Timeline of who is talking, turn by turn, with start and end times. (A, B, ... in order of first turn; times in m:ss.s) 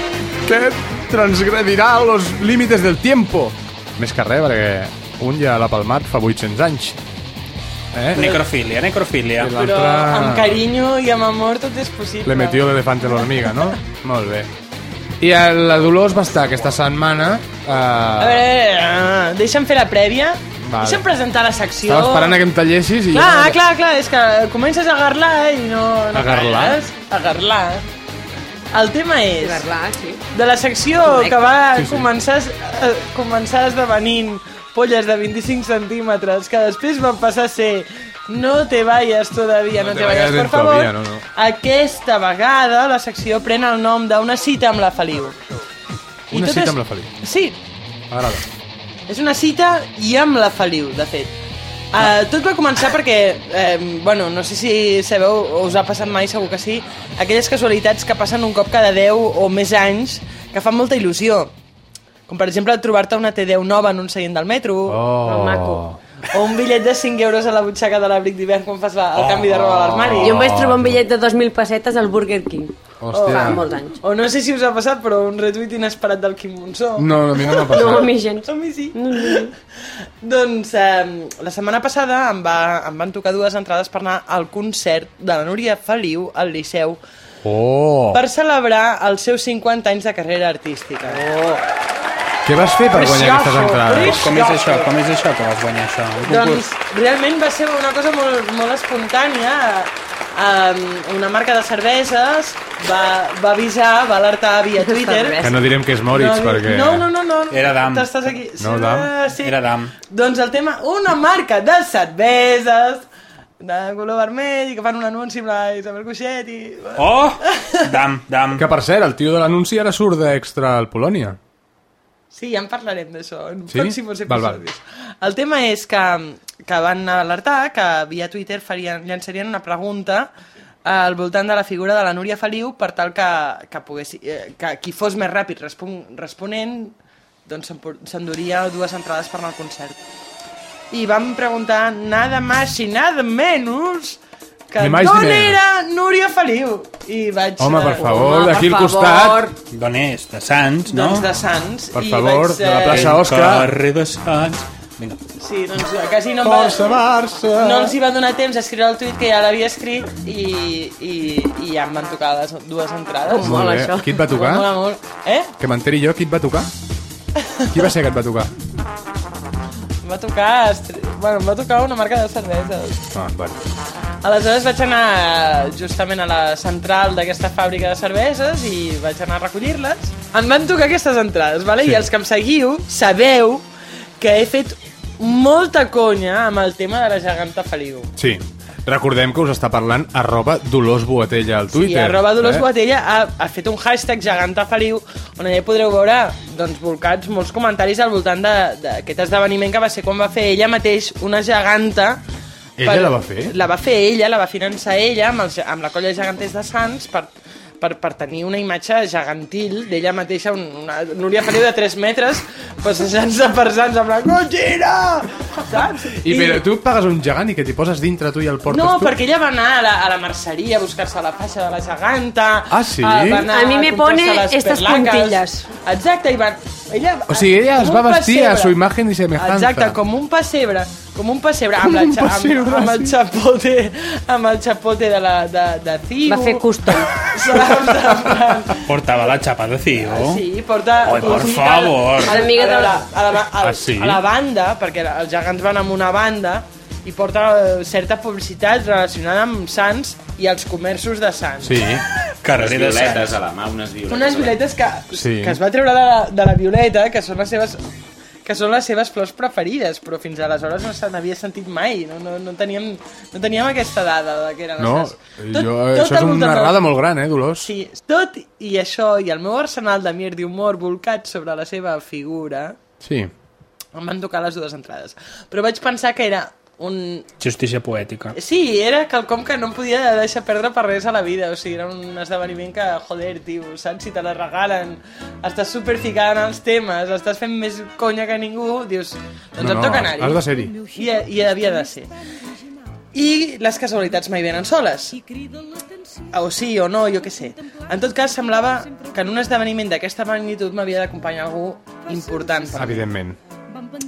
0:00.4-0:07.0 A
0:07.9-0:08.4 A
0:08.1-0:09.5 B
0:09.4-0:10.6 A
0:09.5-0:12.7 C
0:12.2-0:14.5 A
0:15.2-0:18.5 A
0:18.2-0:22.4 C
0:20.6-0:21.0 A
0:21.8-0:23.6 A
0:23.1-0:27.8 C
0:26.1-0:26.8 A
0:28.7-0:29.6 C
0:29.4-0:30.2 D
0:30.3-0:45.4 C
0:31.0-0:31.4 D
0:31.7-0:32.1 A
0:39.7-0:41.2 A
0:46.3-0:47.1 A
0:46.3-0:47.6 C
0:48.1-0:48.4 A
0:49.1-0:51.3 C
0:51.9-1:01.5 C
1:02.3-1:05.0 C
1:04.9-1:06.0 A
1:05.2-1:05.8 D
1:06.3-1:10.4 C
1:09.1-1:10.4 B
1:10.2-1:12.7 D
1:10.2-1:11.0 A
1:13.0-1:13.6 A
1:13.1-1:19.5 C
1:13.2-1:14.0 D
1:17.0-1:18.1 A
1:17.7-1:19.5 D
1:20.2-1:27.0 C
1:27.4-1:28.2 A
1:28.1-1:31.2 C
1:32.4-1:34.3 A
1:32.9-1:34.9 C
1:33.2-1:36.6 B
1:36.2-1:45.4 C
1:44.8-1:45.6 D
1:45.4-1:47.1 A
1:46.1-1:53.0 C
1:47.5-1:48.1 B
1:48.6-1:49.1 A
1:49.4-1:49.9 B
1:53.6-1:57.8 C
1:57.0-1:58.6 B
1:58.5-2:01.4 A
2:02.3-2:10.3 C
2:03.7-2:04.6 A
2:10.8-2:20.0 C
2:20.9-2:24.2 C
2:24.7-2:28.1 C
2:24.8-2:25.6 A
2:27.6-2:29.5 A
2:28.0-2:29.5 D
2:29.7-2:31.3 B
2:30.9-2:33.2 C
2:31.9-2:33.7 A
2:32.9-2:35.2 B
2:35.4-2:37.0 C
2:36.4-2:37.9 A
2:37.6-2:43.6 C
2:43.3-2:44.2 D
2:43.4-2:44.7 A
2:44.3-2:45.5 C
2:45.6-2:46.7 A
2:47.4-2:47.8 C
2:47.7-2:48.5 A
2:50.0-2:53.0 C
2:53.1-2:53.7 A
2:54.2-3:03.6 C
3:01.8-3:02.1 A
3:04.2-3:08.1 C
3:08.2-3:12.6 A
3:11.7-3:22.2 C
3:22.8-3:23.5 A
3:22.8-3:36.6 C
3:36.2-3:39.2 A
3:38.7-3:48.8 C
3:42.7-3:43.5 A
3:43.5-3:45.7 D
3:47.3-3:50.0 A
3:49.4-3:58.9 C
3:51.8-3:53.2 A
3:56.2-3:57.1 D
3:58.8-4:00.4 B
4:00.0-4:11.8 C
4:01.0-4:02.4 B
4:02.2-4:03.0 D
4:03.6-4:04.2 A
4:11.6-4:12.0 A
4:12.4-4:13.4 B
4:12.5-4:14.6 E
4:14.1-4:17.8 C
4:15.1-4:15.6 A
4:18.4-4:26.9 C
4:24.8-4:27.7 A
4:27.6-4:32.8 C
4:33.0-4:33.3 A
4:33.9-4:37.3 C
4:37.4-4:38.4 B
4:38.3-4:52.1 C
4:49.6-4:50.8 A
4:53.1-4:55.2 C
4:56.3-5:03.0 C
5:02.7-5:03.4 A